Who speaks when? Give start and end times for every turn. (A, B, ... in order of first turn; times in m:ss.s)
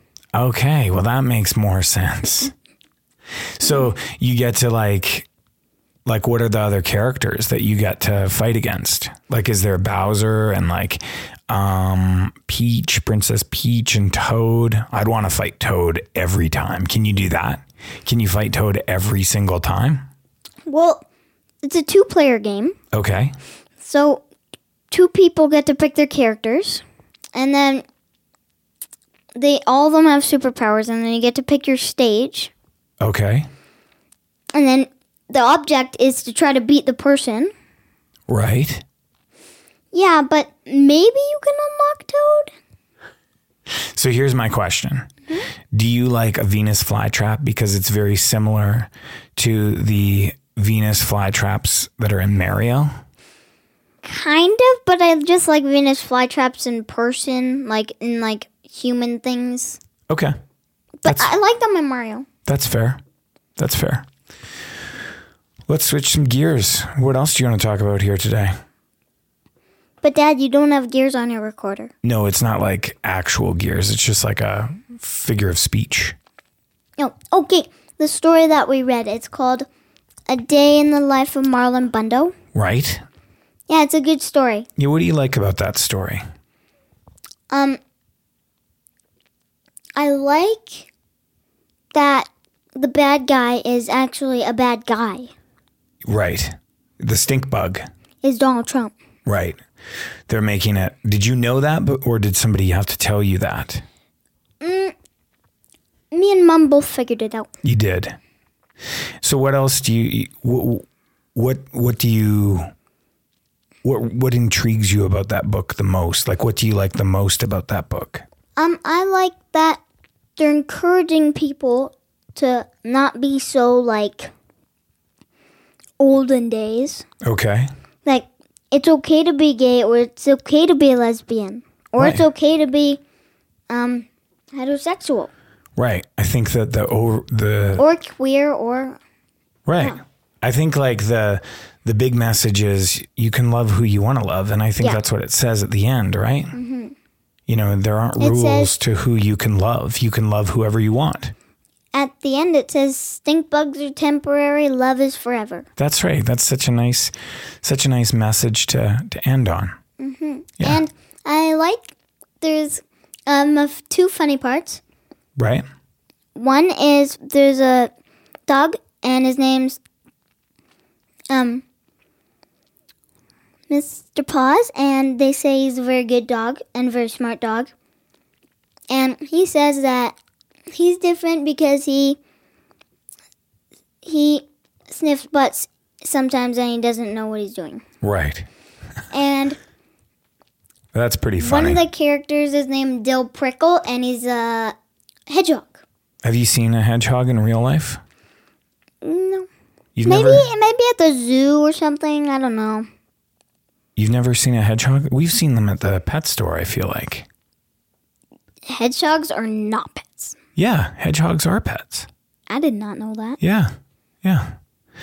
0:00.3-0:02.5 A
0:03.6-0:05.3 A
0:06.1-0:20.1 A
0:20.7-0:21.0 B
0:21.6-0:22.8 B
0:22.9-0:23.3 A
0:23.8-0:24.2 B
0:24.9-0:27.8 B
0:29.4-0:32.5 B
0:33.0-0:33.5 A
0:34.5-0:37.5 B
0:38.3-0:38.8 A
0:39.9-0:42.5 B
0:43.7-0:45.1 A
0:45.7-0:52.9 A
0:54.0-0:59.8 B
1:01.0-1:02.3 B
1:02.5-1:03.0 A
1:03.6-1:04.1 A
1:05.7-1:08.5 A
1:10.0-1:11.9 B
1:12.0-1:16.2 A
1:17.0-1:19.7 B
1:20.3-1:22.3 B
1:22.6-1:23.0 A
1:23.7-1:24.7 B
1:24.8-1:26.2 A
1:27.5-1:27.8 B
1:30.0-1:30.9 B
1:31.9-1:35.3 B
1:36.0-1:37.8 A
1:38.2-1:38.9 B
1:39.3-1:39.6 A
1:40.3-1:43.8 A
1:44.6-1:45.0 B
1:46.1-1:47.5 B
1:47.6-1:48.2 A
1:49.2-1:52.7 A
1:53.8-1:58.2 A
1:58.6-1:59.8 B
2:00.4-2:04.3 B
2:06.0-2:07.0 B
2:07.2-2:07.7 A
2:08.0-2:13.0 B
2:12.0-2:12.2 A
2:13.7-2:15.3 B
2:15.8-2:17.8 A
2:17.8-2:19.0 B
2:19.7-2:26.6 A
2:26.5-2:27.0 B
2:27.5-2:31.3 A
2:28.2-2:28.8 B
2:31.9-2:35.7 B
2:35.8-2:39.7 A
2:40.0-2:44.8 B
2:45.4-2:45.6 A
2:46.4-2:47.9 B
2:48.5-2:49.8 B
2:51.3-2:51.6 B
2:53.7-2:57.7 B
2:58.9-3:00.2 B
3:00.7-3:02.2 B
3:04.0-3:07.8 B
3:08.0-3:08.5 A
3:09.1-3:09.6 B
3:10.9-3:11.8 A
3:11.4-3:14.8 B
3:15.3-3:15.8 B
3:16.2-3:18.0 A
3:19.0-3:19.5 B
3:20.0-3:20.4 A
3:20.1-3:22.9 B
3:24.0-3:27.3 A
3:28.7-3:30.4 B
3:30.6-3:32.1 A
3:32.5-3:33.4 B
3:33.4-3:33.7 A
3:34.2-3:34.6 A